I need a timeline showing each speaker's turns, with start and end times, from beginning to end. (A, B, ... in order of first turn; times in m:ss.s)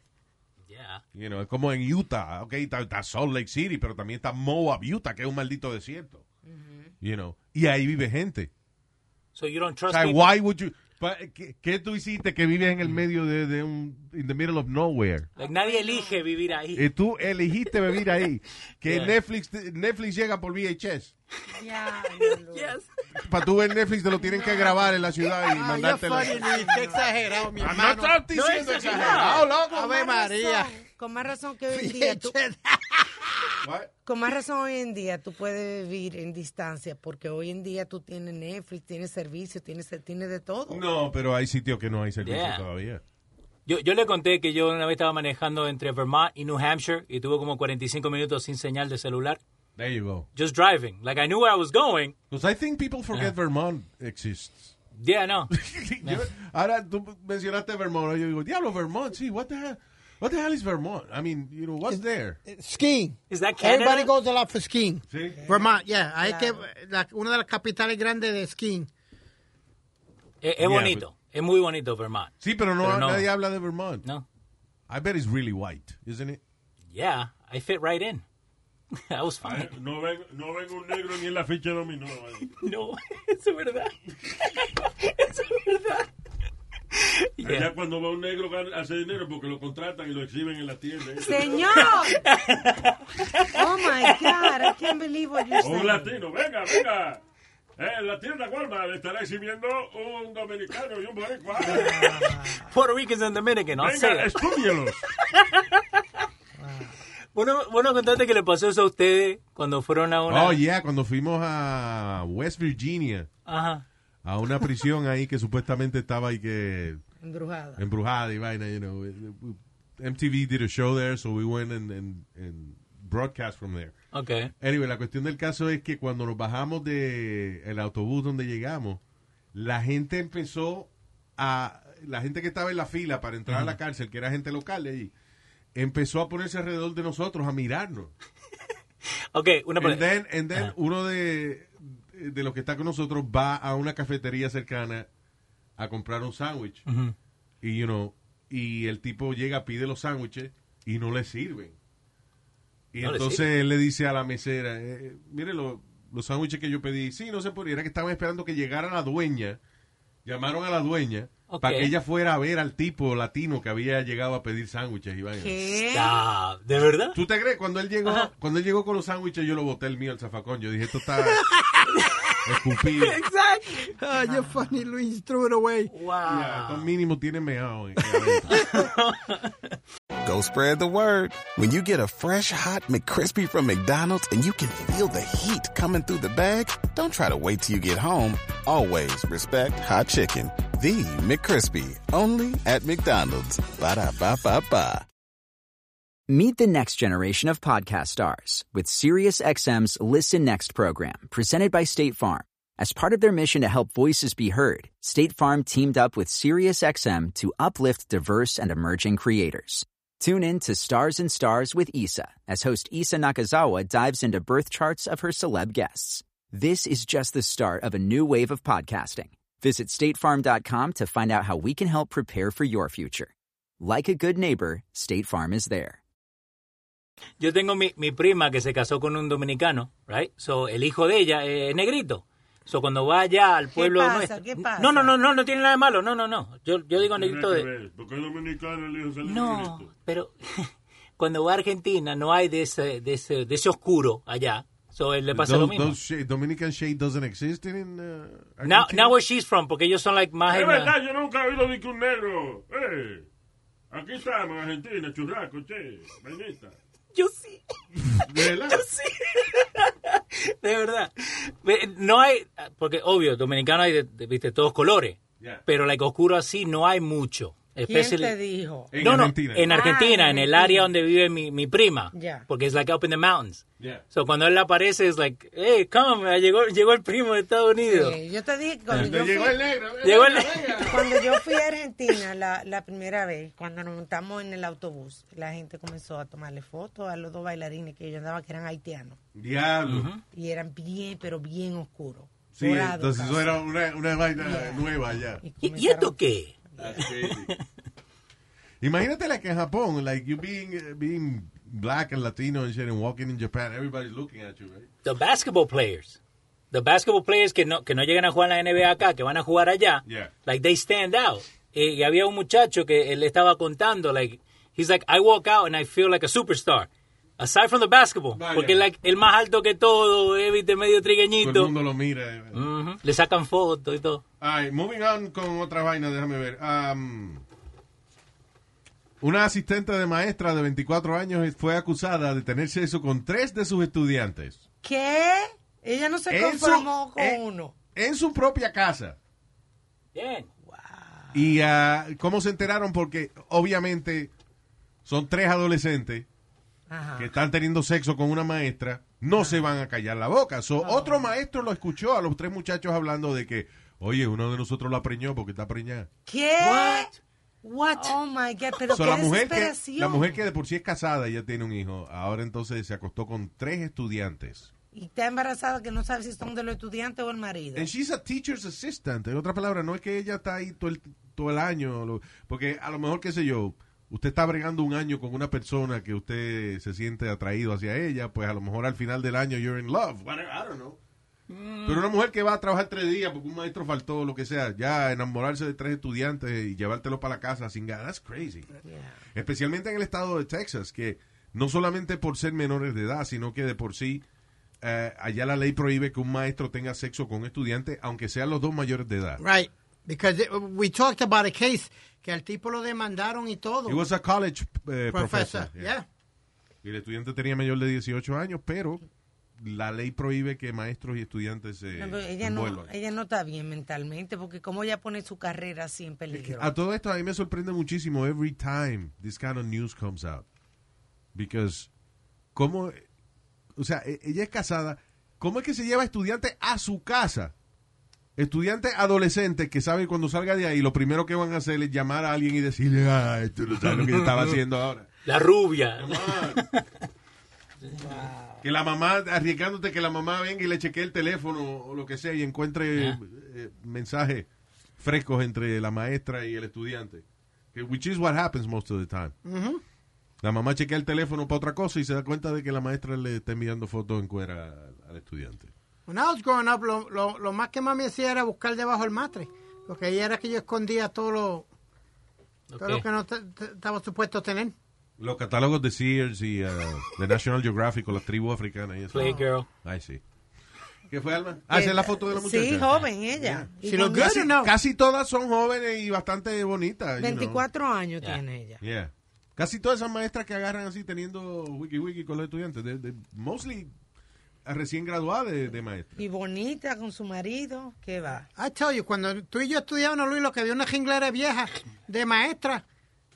0:00.7-0:01.0 A
0:01.1-0:06.2 B
0:06.4-0:06.9 C
0:07.0-0:08.5 B
0:09.3-0:10.3 A
0:09.9-0:15.3 B
0:15.4-0:16.2 C
0:15.4-0:16.9 A
0:16.7-0:21.1 B
0:18.8-0:19.2 A
0:21.5-0:22.8 C
0:22.2-0:22.9 A
0:23.1-0:26.5 B
0:24.2-0:25.0 C
0:25.5-0:28.2 D
0:26.2-0:27.1 C
0:27.6-0:29.8 B
0:28.3-0:29.5 A
0:29.0-0:30.8 D
0:29.6-0:32.4 C
0:31.7-0:33.5 D
0:33.6-0:33.9 B
0:34.0-0:40.8 C
0:40.7-0:43.0 B
0:42.2-0:42.6 A
0:43.6-0:49.4 A
0:49.8-0:50.3 B
0:50.4-0:52.1 A
0:52.3-0:54.7 B
0:55.0-0:56.2 A
0:55.5-1:02.4 B
1:01.9-1:08.9 D
1:03.3-1:04.1 A
1:05.1-1:05.4 B
1:05.3-1:06.6 C
1:10.4-1:13.3 A
1:10.6-1:11.0 B
1:12.4-1:14.0 B
1:14.9-1:16.4 B
1:16.9-1:18.2 A
1:18.9-1:19.7 A
1:19.4-1:22.5 E
1:22.5-1:26.1 A
1:26.9-1:27.7 A
1:27.4-1:31.8 E
1:31.2-1:32.2 C
1:31.7-1:34.9 A
1:33.5-1:36.1 C
1:35.6-1:37.2 E
1:37.8-1:42.2 E
1:41.6-1:42.7 C
1:41.7-1:44.4 A
1:43.7-1:45.0 E
1:45.2-1:46.0 A
1:46.6-1:47.0 C
1:47.3-1:50.6 A
1:50.3-1:53.3 B
1:53.4-1:53.8 A
1:54.2-1:57.0 B
1:57.2-1:57.8 C
1:57.8-2:03.9 B
2:04.1-2:04.5 A
2:04.6-2:09.0 B
2:09.5-2:15.1 B
2:13.5-2:13.8 A
2:15.7-2:18.1 B
2:19.3-2:20.7 A
2:19.8-2:25.1 B
2:25.8-2:26.8 B
2:26.9-2:27.1 A
2:27.6-2:31.8 B
2:32.9-2:39.6 B
2:33.0-2:33.4 A
2:40.2-2:45.6 B
2:41.5-2:41.9 A
2:45.4-2:46.2 C
2:45.9-2:47.2 A
2:47.1-2:51.5 B
2:51.9-2:52.4 A
2:52.4-2:53.2 B
2:53.0-2:54.0 A
2:54.0-2:55.9 D
2:54.2-2:54.5 C
2:55.9-2:56.9 A
2:56.2-2:58.7 B
2:58.0-2:59.8 A
3:00.2-3:15.0 F
3:16.3-3:46.0 G
3:47.4-3:57.7 A
3:53.7-3:55.2 C
3:57.0-3:59.9 E
3:59.2-4:06.0 A
4:05.3-4:09.1 B
4:08.6-4:10.9 A
4:10.5-4:13.3 E
4:13.9-4:16.8 E
4:17.1-4:28.3 A
4:18.0-4:18.8 B
4:27.9-4:28.9 C
4:28.9-4:29.7 B
4:29.0-4:38.2 A
4:29.7-4:30.9 C
4:32.1-4:32.4 C
4:37.8-4:39.6 C
4:38.9-4:41.0 B
4:40.0-4:41.4 A
4:40.8-4:49.2 C
4:49.3-4:50.1 B
4:49.9-4:50.2 A
4:50.3-4:53.6 C
4:52.5-4:55.4 B
4:54.4-4:56.2 C
4:55.6-4:57.6 A
4:56.7-4:57.0 C
4:56.8-4:57.5 B
4:58.8-5:04.9 B
5:05.0-5:06.2 A
5:06.7-5:21.7 A
5:10.0-5:10.3 B
5:18.3-5:18.8 B
5:21.4-5:22.6 B
5:22.5-5:24.2 A
5:24.4-5:27.4 B
5:29.2-5:34.6 B
5:34.8-5:37.7 C
5:36.3-5:37.4 B
5:37.9-5:39.2 B
5:40.1-5:40.5 A
5:40.7-5:41.5 C
5:41.3-5:44.3 B
5:45.0-5:46.3 B
5:46.9-5:47.3 C
5:47.2-5:56.1 B
5:50.8-5:51.3 C
5:56.2-5:57.1 C
5:56.6-5:57.2 A
5:57.6-6:00.3 C
5:58.9-6:04.7 B
6:04.9-6:07.9 C
6:07.7-6:21.0 B
6:21.5-6:22.0 A
6:21.8-6:28.7 B
6:28.8-6:29.2 C
6:29.3-6:34.2 B
6:34.8-6:39.4 B
6:39.4-6:44.0 D
6:43.8-6:45.9 B
6:45.1-6:46.0 D
6:46.8-6:49.0 B
6:49.6-6:52.9 B
6:51.9-6:56.7 C
6:56.3-7:00.4 B
7:01.3-7:01.9 B
7:02.5-7:03.0 B
7:03.8-7:07.5 B
7:08.4-7:15.1 B
7:13.8-7:14.6 A
7:15.2-7:16.8 A
7:16.0-7:16.6 B
7:17.8-7:18.3 A
7:18.0-7:18.6 C
7:18.6-7:29.3 B
7:29.4-7:29.8 D
7:30.4-7:35.7 B
7:36.1-7:41.7 D
7:42.7-7:43.0 A
7:42.8-7:44.7 D
7:45.2-7:50.2 B
7:49.1-7:49.7 A
7:49.2-7:49.5 C
7:51.1-7:57.6 B
7:51.7-7:54.5 C
7:53.8-7:54.7 D
7:57.2-7:58.8 C
7:58.8-8:03.9 B
8:04.6-8:06.1 B
8:06.2-8:08.5 C
8:08.6-8:12.8 D